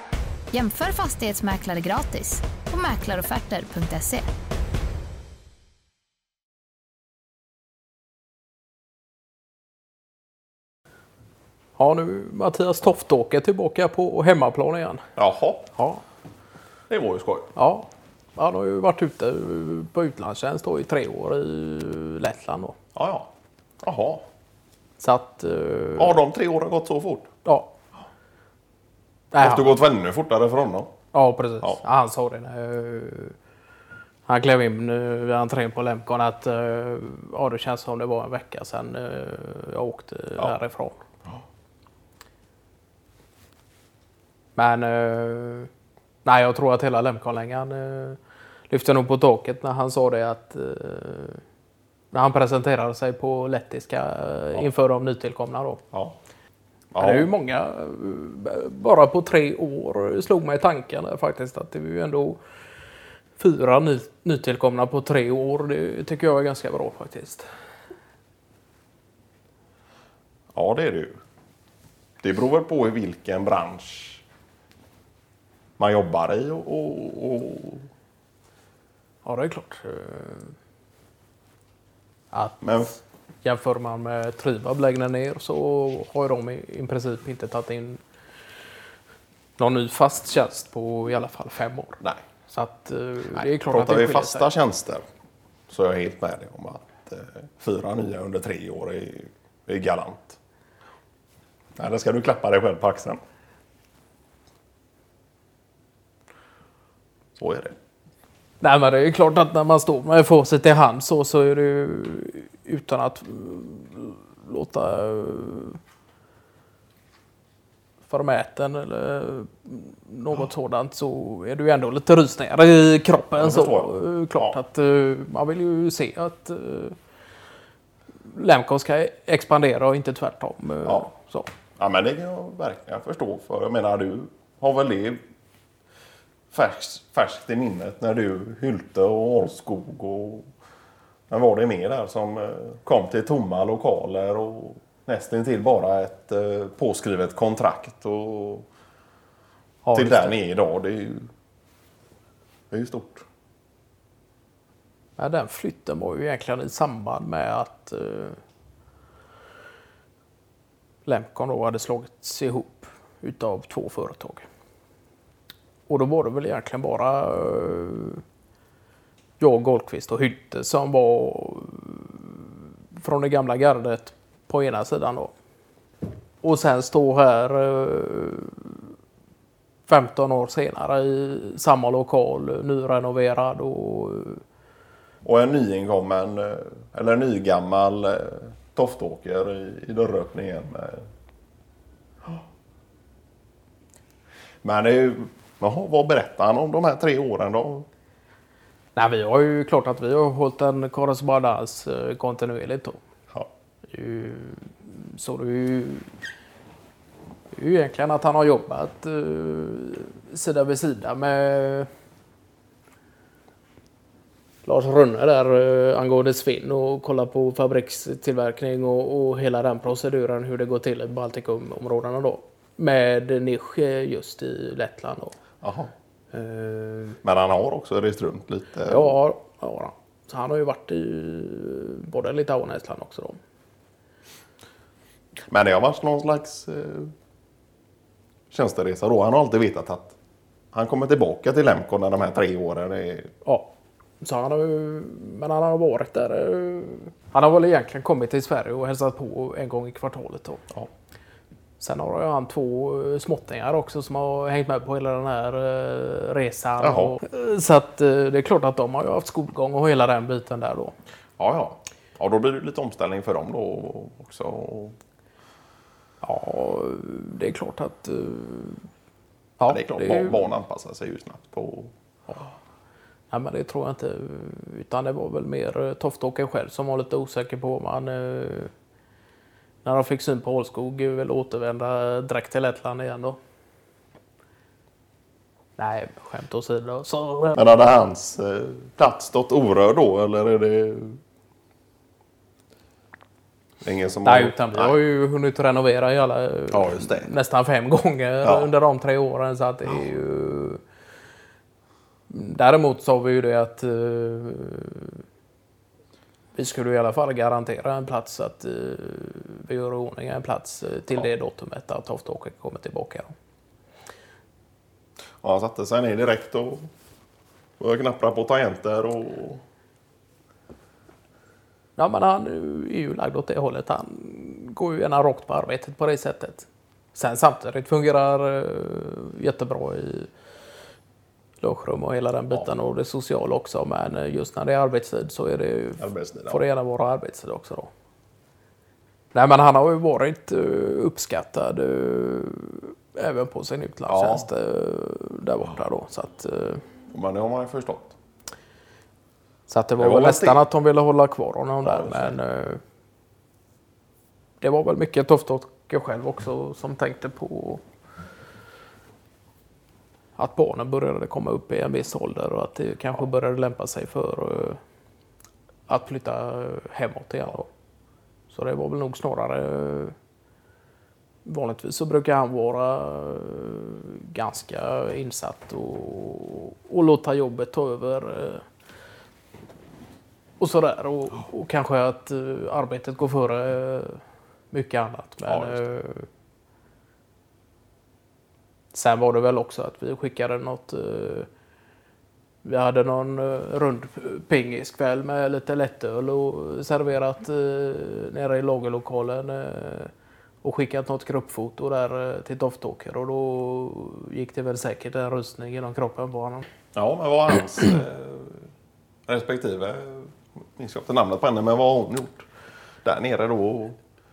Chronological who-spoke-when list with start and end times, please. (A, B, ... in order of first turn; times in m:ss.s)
0:00.5-0:04.3 A
0:11.8-0:15.0 B
0:15.2-0:15.7 C
0:15.8-0:16.0 B
0:16.9-0:17.5 C
0:17.5-0:22.8 B
0:23.0-0:23.3 C
0:23.8-0:24.2 C
0:25.0-0:26.2 B
0:26.0-0:27.3 C
0:27.4-0:27.7 B
0:29.3-0:29.8 B
0:29.4-0:30.9 C
0:31.1-0:33.4 B
0:34.3-0:41.0 B
0:44.6-0:45.7 B
0:46.2-0:48.2 B
0:48.7-0:51.4 B
0:52.1-0:55.8 B
0:56.9-0:57.3 C
0:57.0-1:02.4 B
1:03.4-1:07.5 B
1:10.5-1:11.2 C
1:12.2-1:14.2 C
1:15.8-1:17.9 C
1:19.2-1:20.6 B
1:22.3-1:22.8 B
1:22.6-1:23.0 C
1:23.4-1:28.0 B
1:29.6-1:34.5 B
1:33.4-1:35.0 C
1:35.7-1:40.4 C
1:41.8-1:43.2 C
1:47.4-1:47.8 C
1:48.6-1:55.8 B
1:58.1-2:07.0 B
2:03.4-2:04.6 C
2:08.2-2:11.5 B
2:11.8-2:15.2 C
2:16.5-2:20.5 C
2:21.3-2:28.7 C
2:29.8-2:30.4 B
2:29.9-2:31.3 C
2:32.7-2:33.2 C
2:35.2-2:38.4 B
2:41.0-2:44.4 B
2:45.9-2:48.2 B
2:49.4-2:55.3 B
2:56.4-2:58.9 B
2:59.9-3:04.4 B
3:05.2-3:11.1 C
3:14.6-3:17.9 C
3:19.0-3:23.0 B
3:23.9-3:26.1 B
3:27.5-3:31.9 B
3:34.6-3:45.4 B
3:45.6-3:45.9 C
3:46.3-3:47.2 B
3:47.2-3:49.2 C
3:48.8-3:53.4 B
3:55.5-3:57.1 C
3:58.5-4:00.2 C
4:00.7-4:03.3 C
4:03.4-4:10.6 B
4:11.8-4:20.9 B
4:16.8-4:17.2 C
4:21.4-4:25.0 C
4:26.2-4:28.9 B
4:29.6-4:30.4 B
4:29.7-4:31.9 C
4:33.3-4:38.7 B
4:39.8-4:43.4 B
4:45.8-4:47.6 B
4:47.6-4:51.2 C
4:53.8-4:55.0 C
4:54.2-5:00.8 B
4:56.7-4:57.3 C
4:58.4-4:58.7 C
5:02.3-5:05.2 B
5:06.6-5:13.3 B
5:15.4-5:16.9 C
5:17.8-5:19.6 C
5:22.0-5:30.3 B
5:31.6-5:37.9 B
5:36.0-5:36.6 C
5:39.3-5:46.8 B
5:44.1-5:44.5 C
5:47.1-5:48.2 C
5:49.7-5:52.8 B
5:50.0-5:50.6 C
5:51.8-5:52.4 C
5:54.6-5:57.8 B
6:00.4-6:04.8 B
6:05.9-6:07.7 B
6:08.5-6:10.1 B
6:11.4-6:18.6 B
6:20.6-6:26.3 B
6:25.5-6:25.8 C
6:28.9-6:31.5 B
6:32.6-6:40.1 B
6:40.6-6:46.7 B
6:47.0-6:48.7 C
6:49.3-6:52.5 C
6:53.0-6:54.0 C